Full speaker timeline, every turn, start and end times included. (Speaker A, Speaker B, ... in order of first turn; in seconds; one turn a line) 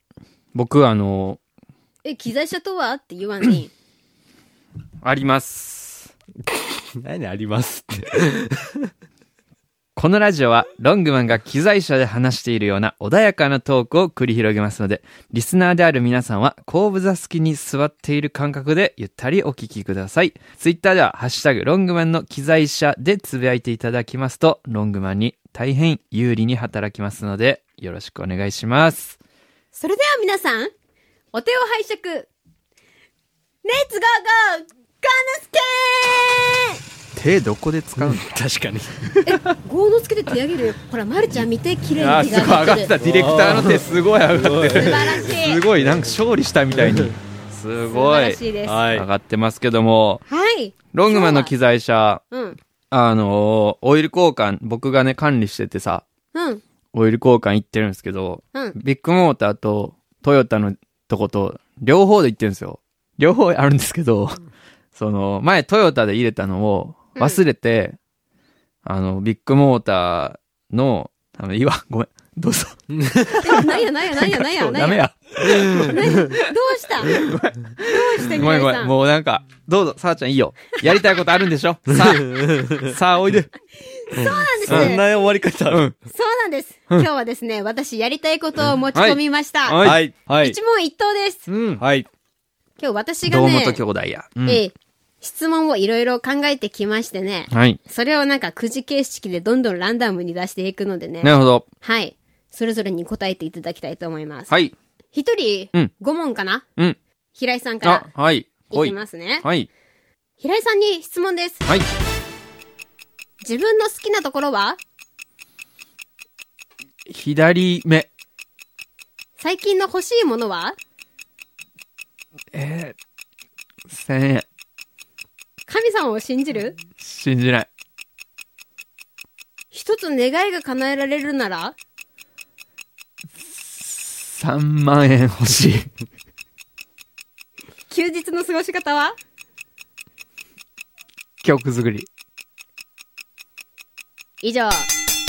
Speaker A: 0.5-1.4
Speaker B: 2.0-3.7
Speaker A: 5.0-6.1
Speaker C: 7.0-8.7
Speaker A: 10.0-29.2
Speaker B: 29.7-30.7
Speaker B: 31.3-32.3
Speaker B: 33.6-36.8
Speaker A: 37.1-38.3
Speaker C: 38.0-39.5
Speaker B: 39.3-42.9
Speaker A: 42.0-50.2
Speaker C: 43.0-45.4
Speaker B: 44.7-45.6
Speaker B: 47.9-48.8
Speaker C: 48.7-49.1
Speaker B: 50.3-51.5
Speaker A: 50.9-52.2
Speaker B: 52.3-52.6
Speaker A: 52.9-56.0
Speaker B: 56.3-56.6
Speaker A: 56.9-64.4
Speaker A: 65.0-68.0
Speaker B: 67.2-67.4
Speaker A: 68.8-72.8
Speaker C: 73.0-73.4
Speaker A: 73.3-76.5
Speaker B: 73.4-75.0
Speaker C: 75.5-75.9
Speaker B: 75.8-77.2
Speaker A: 77.0-83.5
Speaker B: 77.8-78.9
Speaker C: 82.0-82.8
Speaker B: 83.9-85.0
Speaker C: 84.2-85.9
Speaker A: 84.7-85.0
Speaker B: 86.1-89.8
Speaker A: 88.9-90.0
Speaker C: 89.8-90.6
Speaker B: 90.4-91.5
Speaker A: 91.5-91.8
Speaker C: 91.8-92.1
Speaker B: 92.8-93.8
Speaker A: 93.2-94.6
Speaker B: 94.5-104.5
Speaker A: 97.5-97.8
Speaker A: 101.2-101.7
Speaker A: 104.5-104.8
Speaker B: 105.1-106.6
Speaker B: 107.3-108.1
Speaker A: 107.8-109.7
Speaker B: 108.7-109.5
Speaker B: 110.4-111.6
Speaker B: 113.4-114.8
Speaker A: 117.1-118.1
Speaker B: 119.4-120.8
Speaker A: 122.5-123.0
Speaker A: 123.9-124.5
Speaker B: 125.7-126.8
Speaker A: 127.0-127.7
Speaker B: 129.7-131.8
Speaker A: 133.4-135.9
Speaker B: 137.9-139.2
Speaker A: 141.4-142.1
Speaker B: 144.4-144.9